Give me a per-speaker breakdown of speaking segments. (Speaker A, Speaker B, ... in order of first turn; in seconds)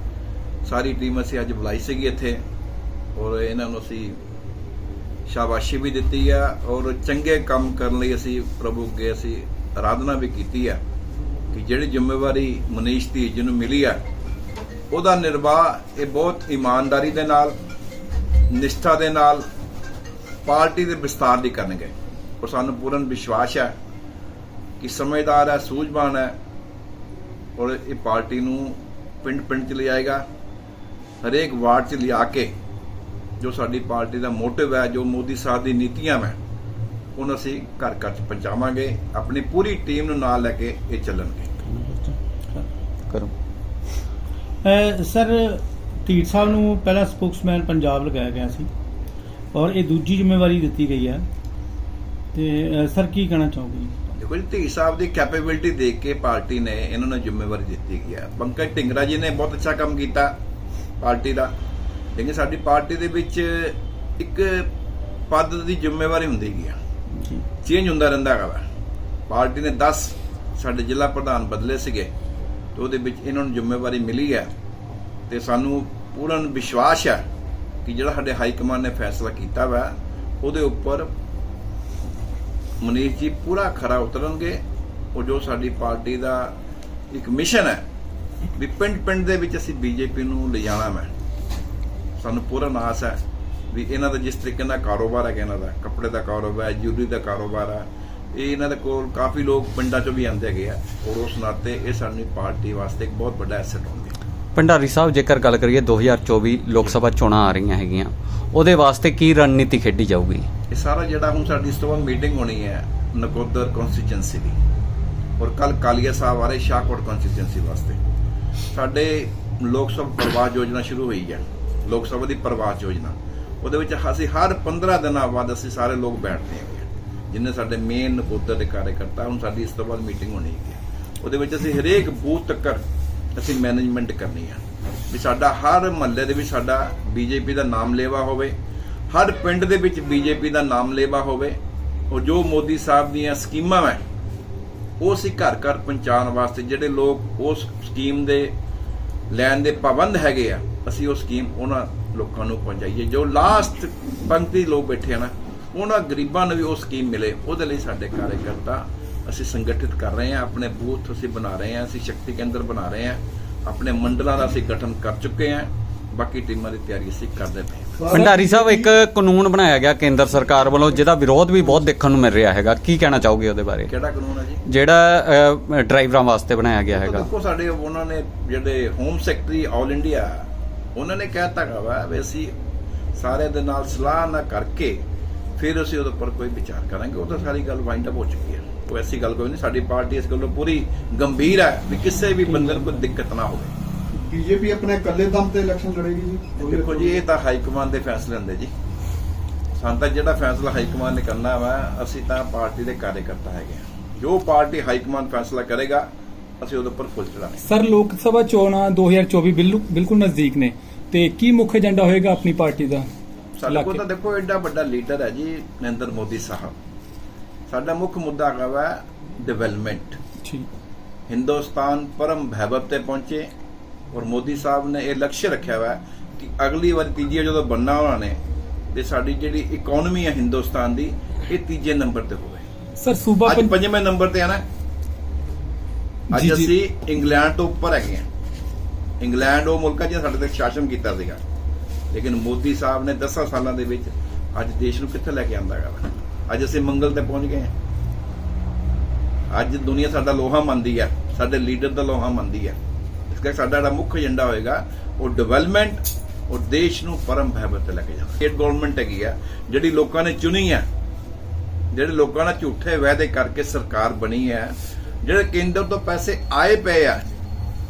Speaker A: 0.7-2.4, 3.2-4.2, 5.3-10.8, 11.5-14.0, 14.9-17.6, 18.5-19.4, 20.5-23.7, 24.8-26.3, 27.6-30.2, 31.2-32.5, 33.4-36.4, 37.2-41.5, 54.2-60.3, 61.0-61.5, 62.2-64.7, 65.3-66.8, 67.6-68.6, 69.3-72.1, 72.8-74.5, 75.3-77.2, 77.8-79.9, 80.4-81.1, 82.8-84.6, 85.2-86.5, 87.1-87.8, 88.6-91.1, 92.2-93.2, 93.7-104.2, 110.7-114.5, 115.4-118.0, 118.7-132.8, 133.4-138.5, 139.1-141.6, 142.1-144.0, 145.0-148.5, 149.3-168.1, 173.9-174.6, 176.9-180.3, 181.0-182.5, 183.2-185.0, 185.6-193.7, 196.6-198.7, 199.8-206.1, 206.6-207.6, 213.6-216.8, 217.7-220.2, 221.3-223.5, 224.1-228.4, 228.9-232.7, 233.4-234.6, 236.3-238.2, 239.2-241.4, 242.1-247.7, 249.5-252.8, 253.3-260.9, 261.9-267.2
Speaker B: 41.7-42.6, 44.7-45.3, 46.1-48.5, 49.5-51.1, 52.9-53.8
Speaker C: 104.6-110.5, 168.1-173.9, 174.7-177.3
Speaker D: 168.0-168.9, 194.1-197.2
Speaker E: 207.6-213.1, 213.7-214.0, 233.0-233.8, 236.3-236.7